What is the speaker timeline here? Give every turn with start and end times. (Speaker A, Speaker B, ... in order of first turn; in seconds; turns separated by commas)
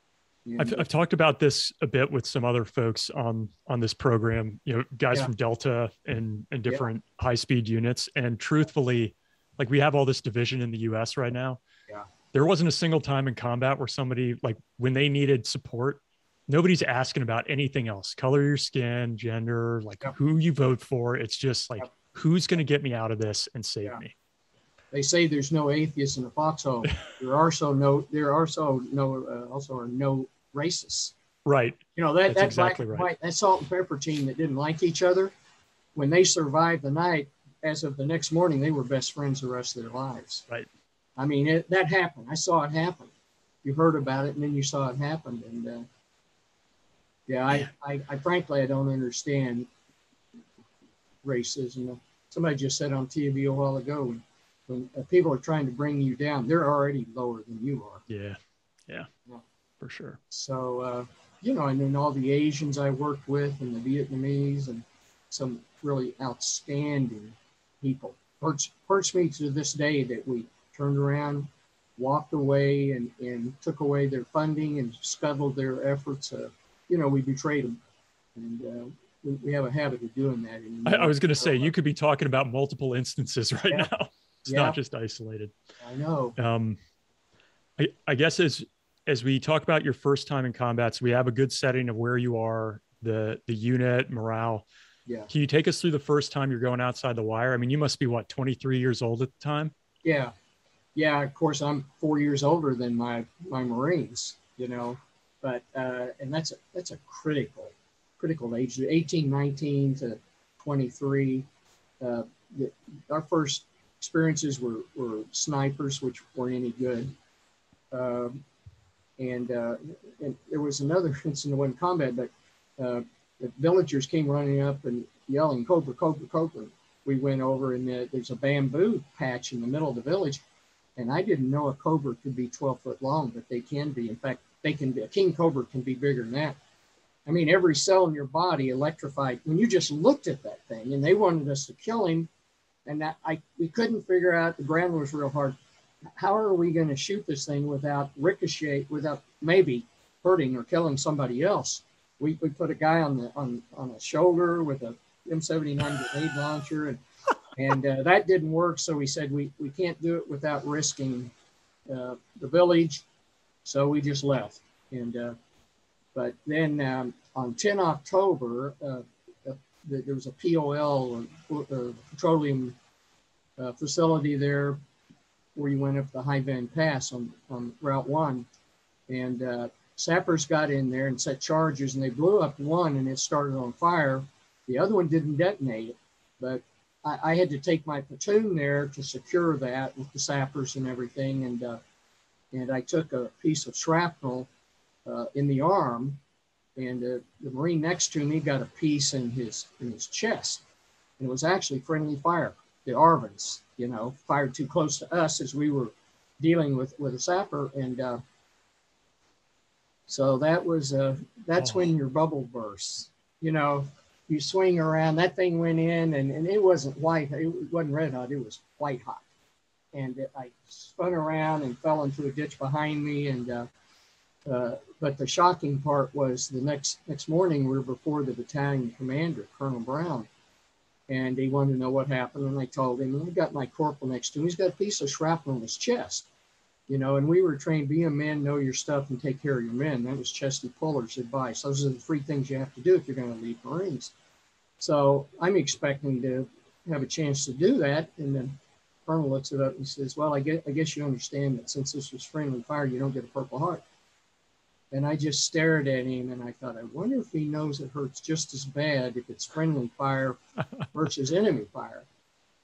Speaker A: 0.5-0.8, Speaker B: 0.6-11.6, Speaker B: 12.3-24.1, Speaker A: 24.9-31.1, Speaker B: 31.5-33.1, Speaker A: 32.0-35.3, Speaker A: 36.0-40.5, Speaker A: 41.2-43.1, Speaker A: 43.6-45.9, Speaker A: 47.3-49.7, Speaker A: 51.2-58.0, Speaker B: 58.1-59.1, Speaker B: 59.8-60.2, Speaker A: 60.3-77.8, Speaker A: 78.4-81.7, Speaker B: 80.9-85.5, Speaker A: 84.5-84.8, Speaker A: 85.8-86.4, Speaker B: 86.4-86.8, Speaker B: 87.8-94.7, Speaker B: 95.3-99.7, Speaker A: 100.0-100.3, Speaker A: 101.0-111.5, Speaker A: 112.0-117.1, Speaker A: 117.9-118.4, Speaker A: 119.2-130.4, Speaker A: 131.0-136.6, Speaker A: 137.3-142.3, Speaker A: 142.9-145.6, Speaker A: 146.2-157.0, Speaker A: 157.6-161.3, Speaker A: 161.9-163.1, Speaker A: 163.7-165.4, Speaker A: 166.2-172.8, Speaker A: 173.6-174.8, Speaker A: 175.6-178.5, Speaker A: 179.1-191.8, Speaker A: 192.5-194.5, Speaker A: 195.1-196.2, Speaker A: 196.8-200.6, Speaker A: 201.2-208.2, Speaker A: 210.1-219.2, Speaker B: 211.6-211.9, Speaker A: 219.9-223.7, Speaker A: 224.5-230.3, Speaker A: 231.1-236.3, Speaker A: 236.9-244.1, Speaker A: 244.8-248.6, Speaker A: 249.1-253.8, Speaker A: 254.9-260.4, Speaker A: 260.9-262.1